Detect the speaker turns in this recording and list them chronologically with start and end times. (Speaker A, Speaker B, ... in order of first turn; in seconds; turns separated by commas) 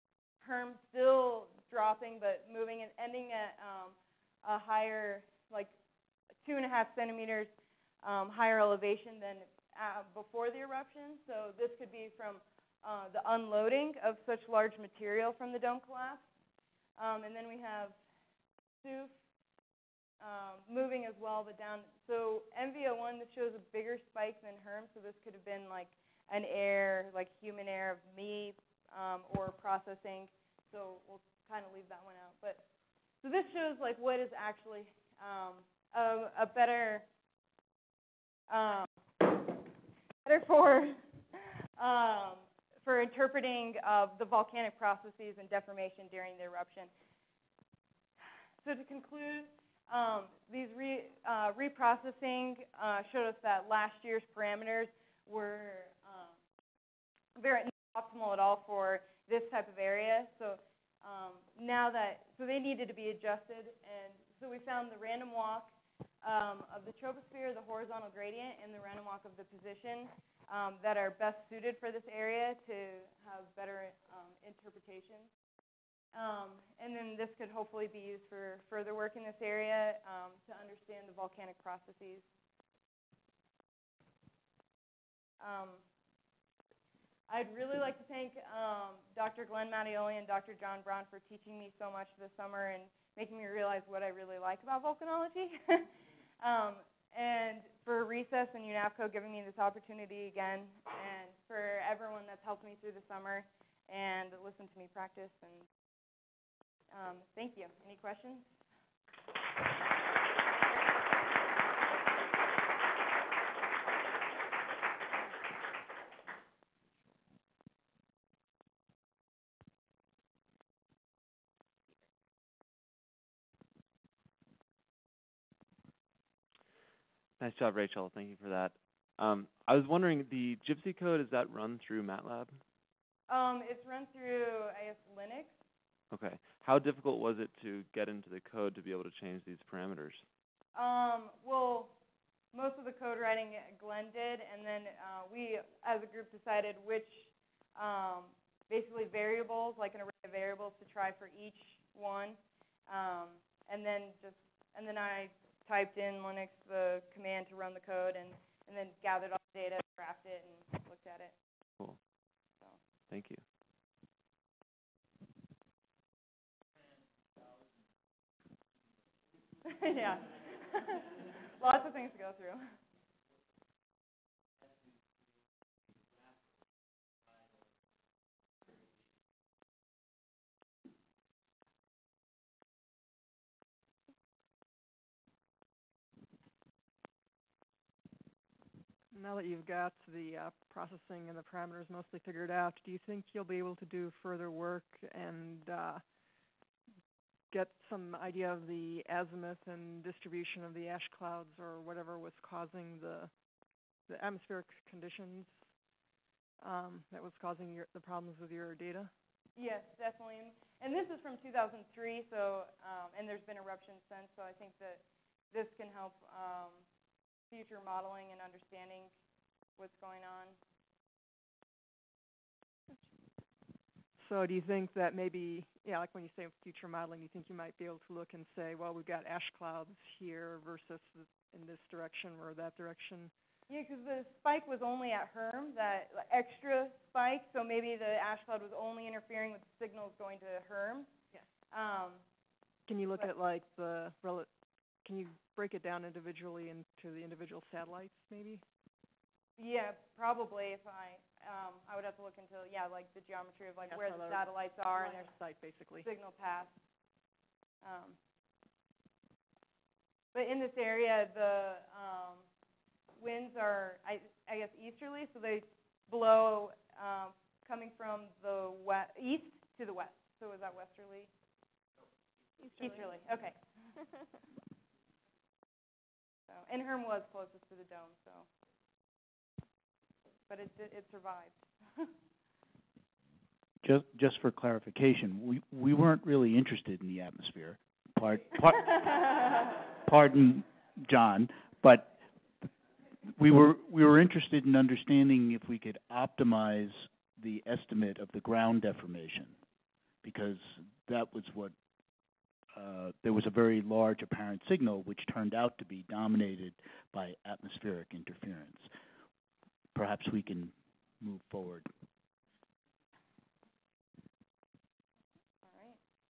Speaker A: 0.4-5.7, Speaker A: 6.4-7.5, Speaker A: 8.0-16.2, Speaker A: 17.0-17.9, Speaker A: 18.8-19.1, Speaker A: 20.2-32.6, Speaker A: 33.2-37.0, Speaker A: 38.5-39.7, Speaker A: 40.2-41.0, Speaker A: 41.8-46.9, Speaker A: 48.6-56.3, Speaker A: 57.4-75.3, Speaker A: 76.1-82.2, Speaker A: 85.4-85.8, Speaker A: 87.3-95.9, Speaker A: 96.4-105.7, Speaker A: 106.9-108.5, Speaker B: 127.4-132.5, Speaker A: 133.3-135.5, Speaker B: 136.1-140.2, Speaker A: 140.7-141.9, Speaker A: 142.5-152.4, Speaker A: 152.9-161.3, Speaker B: 163.1-163.4, Speaker A: 169.6-172.7, Speaker C: 189.1-196.0, Speaker C: 197.5-203.3, Speaker C: 204.1-205.5, Speaker C: 206.6-209.1, Speaker A: 209.6-215.0, Speaker A: 215.5-216.8, Speaker A: 217.5-219.1, Speaker A: 219.8-220.5, Speaker C: 224.2-233.3, Speaker A: 233.7-241.1, Speaker A: 241.7-242.2, Speaker C: 242.9-244.5, Speaker C: 245.0-248.6, Speaker A: 249.6-255.3, Speaker C: 253.8-256.1, Speaker A: 256.0-256.7, Speaker A: 257.8-258.1, Speaker A: 260.3-262.4, Speaker A: 263.2-271.3, Speaker A: 272.7-273.6, Speaker A: 276.5-278.5, Speaker A: 280.5-282.1, Speaker D: 283.8-292.1, Speaker D: 293.4-299.6, Speaker D: 300.2-301.7, Speaker D: 302.7-308.9, Speaker D: 309.9-311.9, Speaker A: 315.6-316.0